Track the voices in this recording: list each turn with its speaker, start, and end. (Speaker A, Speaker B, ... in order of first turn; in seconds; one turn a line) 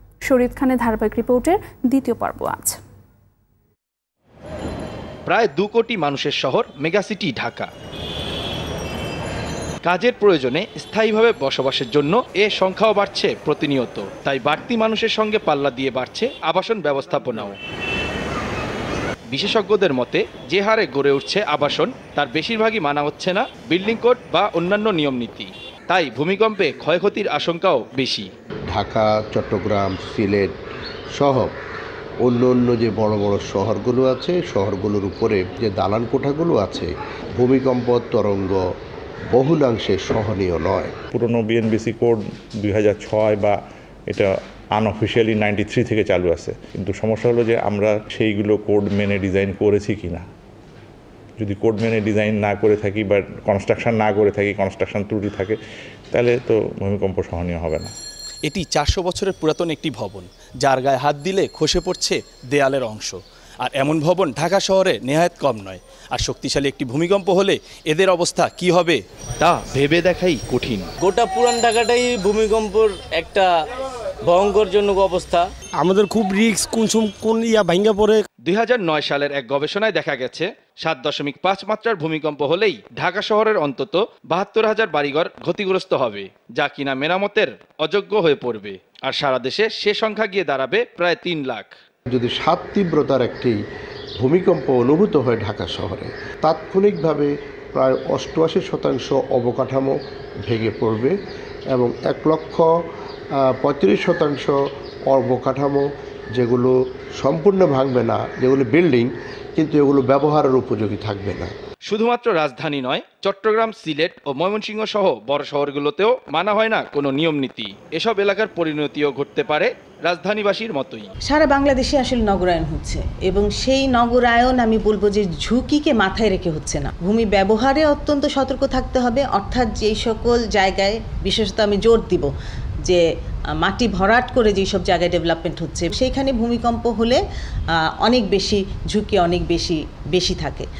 Speaker A: 0.2-2.8
Speaker B: 5.3-7.7
Speaker B: 9.8-17.6
Speaker B: 19.3-28.3
Speaker C: 28.7-30.5
Speaker C: 31.1-31.5
Speaker C: 32.2-38.6
Speaker C: 39.3-40.9
Speaker D: 41.1-43.5
Speaker D: 44.1-50.2
Speaker D: 51.4-55.6
Speaker D: 56.1-57.9
Speaker B: 58.4-70.9
Speaker E: 71.0-73.5
Speaker E: 74.2-75.5
Speaker F: 75.8-78.2
Speaker B: 78.4-91.7
Speaker C: 92.1-93.6
Speaker C: 94.2-101.2
Speaker C: 101.7-102.7
Speaker C: 103.4-104.6
Speaker C: 105.1-111.5
Speaker B: 111.9-121.1
Speaker G: 121.2-140.7